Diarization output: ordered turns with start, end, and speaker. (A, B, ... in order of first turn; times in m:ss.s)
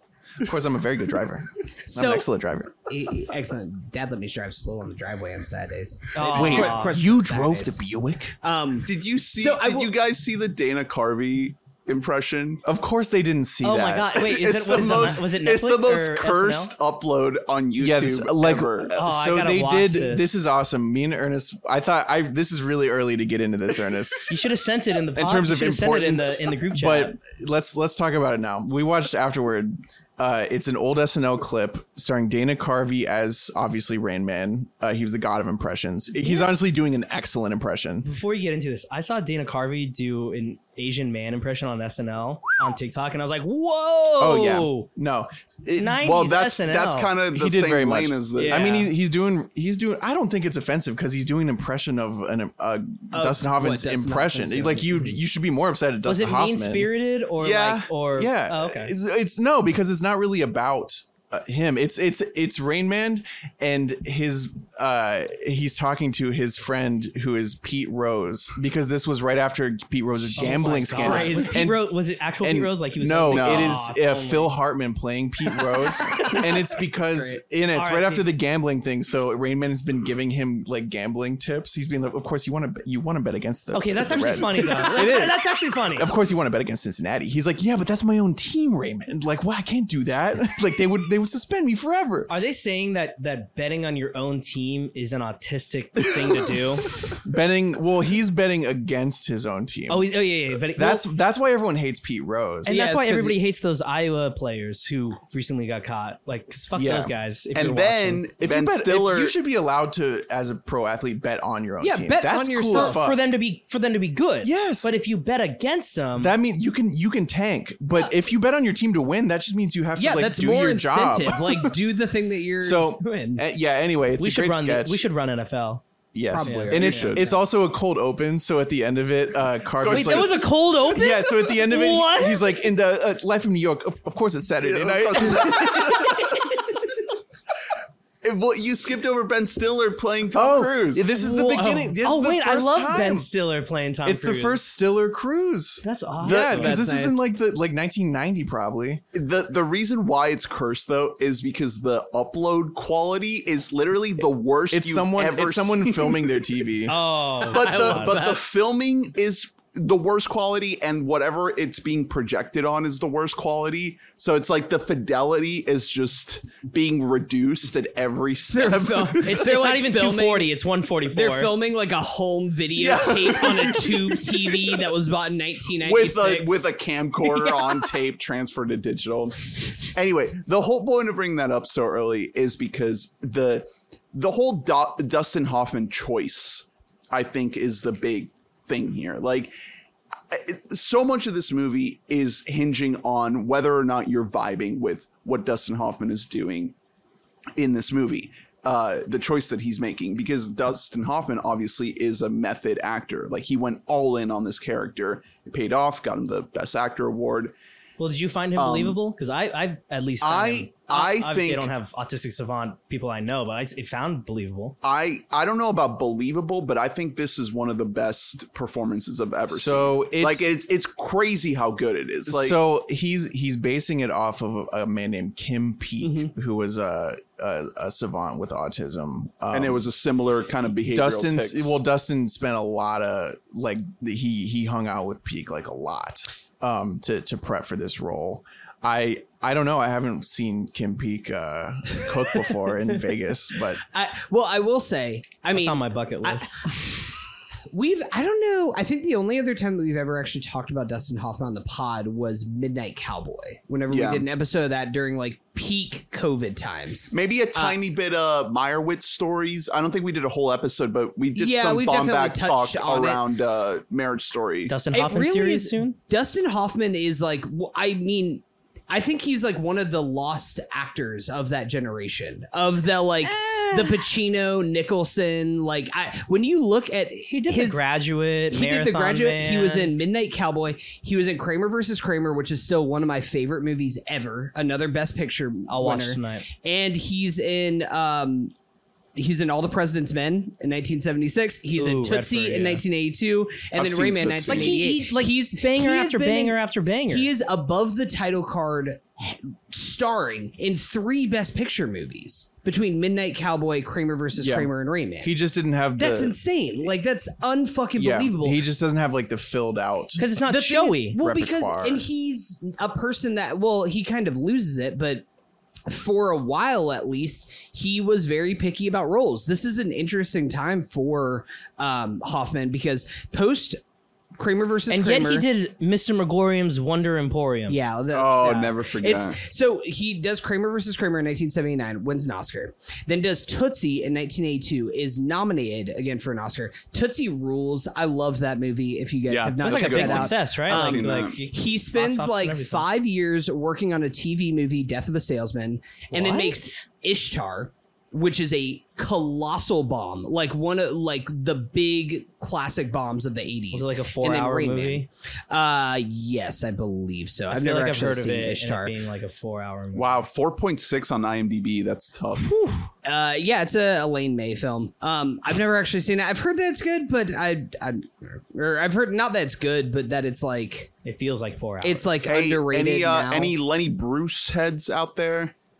0:00.4-0:02.7 A
0:01.9-0:02.3 B
0:02.9-0:07.8 B
0:06.1-0:07.0 C
0:06.2-0:08.4 A
0:08.4-0:09.9 B
0:08.8-0:12.6 D
0:12.6-0:14.2 A
0:13.6-0:16.7 C
0:14.2-0:19.0 D
0:17.8-0:24.3 A
0:18.9-0:20.2 C
0:24.3-0:27.2 C
0:25.1-0:38.1 A
0:36.2-0:36.5 C
0:38.0-0:44.9 C
0:44.2-0:46.1 A
0:45.8-0:47.2 C
0:46.0-0:48.8 D
0:47.3-0:56.9 A
0:48.3-0:48.9 C
0:53.1-0:55.2 B
0:56.0-0:58.9 C
0:57.4-0:57.8 D
0:57.9-1:32.3 A
1:10.4-1:14.6 C
1:10.4-1:11.6 B
1:13.3-1:13.8 D
1:16.0-1:16.4 C
1:17.0-1:17.4 B
1:17.7-1:18.3 C
1:23.7-1:26.1 C
1:32.3-1:37.0 C
1:37.2-1:40.1 A
1:39.9-1:41.1 C
1:40.7-1:42.8 A
1:42.6-1:48.2 C
1:42.7-1:43.4 B
1:46.7-1:47.1 A
1:47.5-1:49.3 D
1:48.4-1:53.2 A
1:51.8-1:53.0 B
1:52.7-1:56.4 C
1:54.4-1:54.9 A
1:56.2-2:01.7 A
2:00.0-2:03.4 B
2:02.6-2:05.0 A
2:04.2-2:05.8 C
2:06.1-2:16.3 A
2:06.3-2:07.4 B
2:06.4-2:07.1 C
2:06.8-2:07.3 D
2:09.8-2:10.4 D
2:09.9-2:12.5 C
2:14.6-2:16.5 D
2:18.2-2:21.1 D
2:20.3-2:23.3 A
2:21.2-2:24.6 C
2:24.0-2:29.0 A
2:25.8-2:26.8 C
2:26.3-2:27.2 B
2:29.1-2:36.4 D
2:34.7-2:37.0 A
2:36.9-2:38.4 C
2:37.4-2:49.4 D
2:48.5-2:50.5 B
2:49.1-2:51.6 C
2:51.1-2:57.9 B
2:52.8-2:54.8 D
2:55.8-3:09.5 D
3:10.3-3:16.7 D
3:17.6-3:27.5 D
3:28.0-3:34.8 C
3:28.6-3:29.0 D
3:30.2-3:31.7 D
3:34.8-3:42.6 D
3:39.5-3:40.5 A
3:42.3-3:49.8 A
3:46.0-3:46.3 B
3:49.5-3:51.8 D
3:50.8-4:03.8 A
4:03.9-4:06.8 B
4:05.5-4:06.6 C
4:07.7-4:17.8 B
4:13.9-4:14.3 D
4:17.1-4:24.7 D
4:21.4-4:23.2 B
4:24.7-4:26.0 C
4:24.9-4:37.8 B
4:33.2-4:34.1 C
4:37.3-4:39.9 C
4:38.5-4:48.5 B
4:45.7-4:46.5 C
4:49.2-4:56.6 B
4:51.7-4:52.8 C
4:53.7-4:54.8 D
4:54.4-4:57.3 C
4:57.1-5:05.3 B
5:04.3-5:06.4 A
5:06.0-5:08.6 B
5:08.0-5:10.3 A
5:10.2-5:11.2 C
5:10.4-5:15.2 B
5:11.2-5:12.0 A
5:15.9-5:23.8 B
5:24.4-5:25.5 B
5:24.9-5:27.8 C
5:27.7-5:58.9 B
5:28.1-5:29.4 D
5:39.3-5:41.4 D
5:39.6-5:42.8 C
5:46.1-5:46.8 C
5:53.7-5:55.1 C
5:57.5-6:00.2 C
5:59.9-6:02.5 D
6:02.4-6:02.9 C
6:03.0-6:10.9 B
6:11.0-6:12.2 C
6:11.8-6:13.5 B
6:12.2-6:15.5 D